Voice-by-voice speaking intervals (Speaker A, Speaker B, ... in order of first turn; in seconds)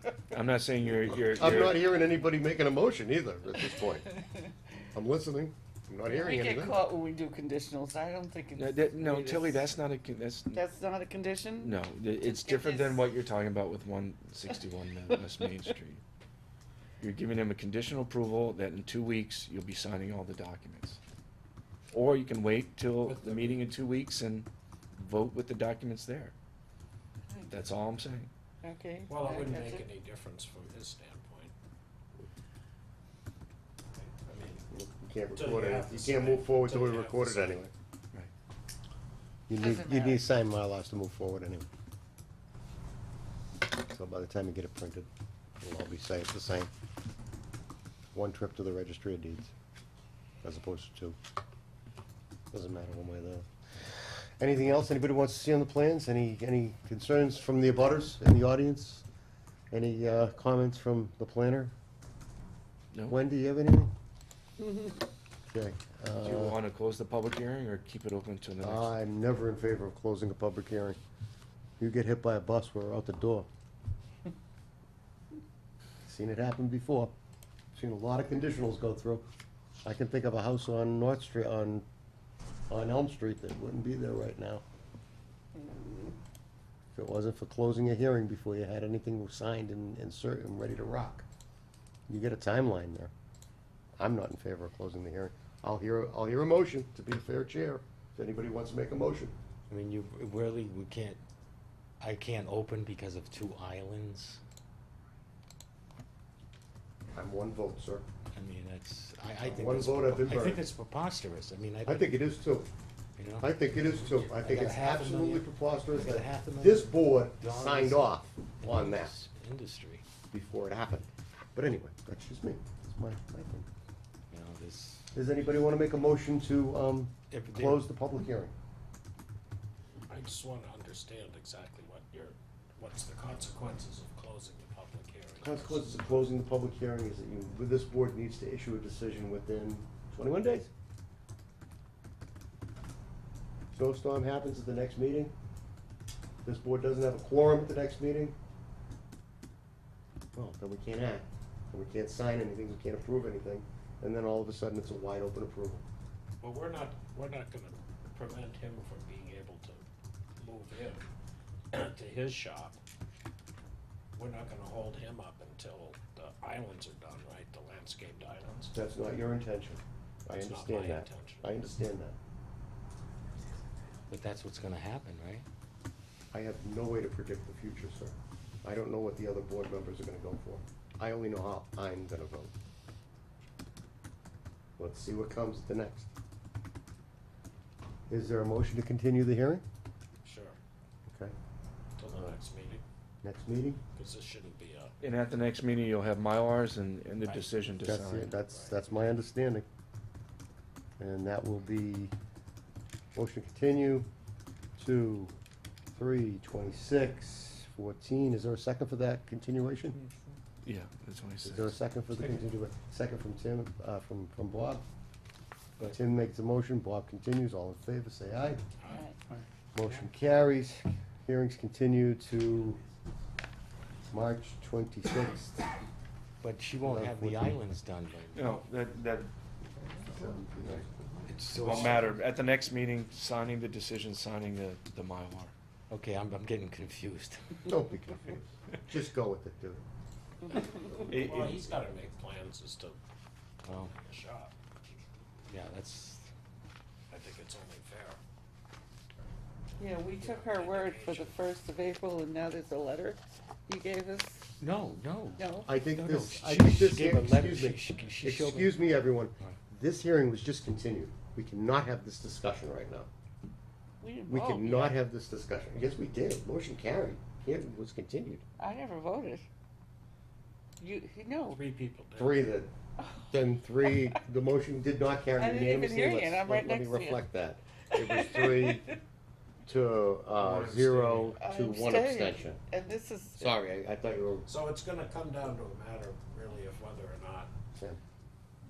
Speaker A: 0.3-1.8, 8.5-10.6, 11.6-16.0, 17.0-21.0, 21.9-26.3, 27.5-28.3, 66.2-68.9, 195.0-198.3, 210.6-211.8, 228.3-229.3, 231.6-235.5, 240.7-241.7, 280.3-281.4
Speaker B: 1.1-4.1, 4.9-6.8, 34.7-37.7, 39.5-41.7, 43.9-45.1, 45.6-46.7, 48.1-49.5, 50.4-51.2, 52.5-53.5, 54.4-59.0, 59.7-61.7, 63.1-63.9, 65.5-66.6, 68.6-71.0, 71.8-73.5, 76.0-77.1, 77.7-79.2, 79.8-81.8, 82.7-84.6, 86.9-91.2, 92.1-93.1, 94.0-99.3, 107.1-108.0, 109.4-110.7, 111.8-112.7, 113.4-119.1, 120.3-123.7, 125.1-128.5, 135.4-140.7, 143.7-145.3, 146.4-148.3, 150.3-155.8, 168.7-172.2, 176.3-182.5, 184.8-186.1, 188.1-189.6, 191.1-191.3, 193.2-193.8, 197.8-199.7, 201.0-202.1, 203.1-204.1, 204.8-205.3, 205.9-210.0, 211.4-214.8, 215.8-218.6, 219.7-222.8, 224.1-225.6, 226.8-227.5, 230.1-230.9, 237.6-239.8, 255.6-263.1, 264.3-268.4, 272.1-272.7, 273.3-278.9, 279.6-282.6, 283.4-284.4, 287.7-288.0
Speaker C: 6.1-9.6, 10.5-13.1, 27.3-27.7, 28.6-29.9, 39.5-40.3, 85.6-86.1, 218.9-219.2, 249.8-254.5, 255.4-255.7, 264.0-265.0, 268.6-269.4, 270.8-271.6, 273.0-273.3, 275.4-277.2, 277.9-278.9, 281.4-283.6
Speaker D: 23.0-23.6, 29.1-31.5, 33.9-34.7, 35.3-37.6, 130.1-136.4, 156.4-159.8, 160.4-161.1, 161.7-162.8, 164.1-168.9, 170.3-171.7, 190.2-190.6, 192.0-192.8, 193.9-194.9, 198.5-199.1, 240.9-243.0, 243.6-244.6, 247.1-248.2, 249.8-251.4, 271.5-272.5, 284.4-287.5
Speaker E: 99.7-101.2, 102.0-104.4, 108.3-112.2, 113.2-120.0, 124.3-125.1, 127.3-127.9, 174.1-175.4, 219.8-220.1, 226.4-228.6, 231.3-232.1, 235.9-237.8, 243.6-243.9, 245.5-246.3, 254.6-259.6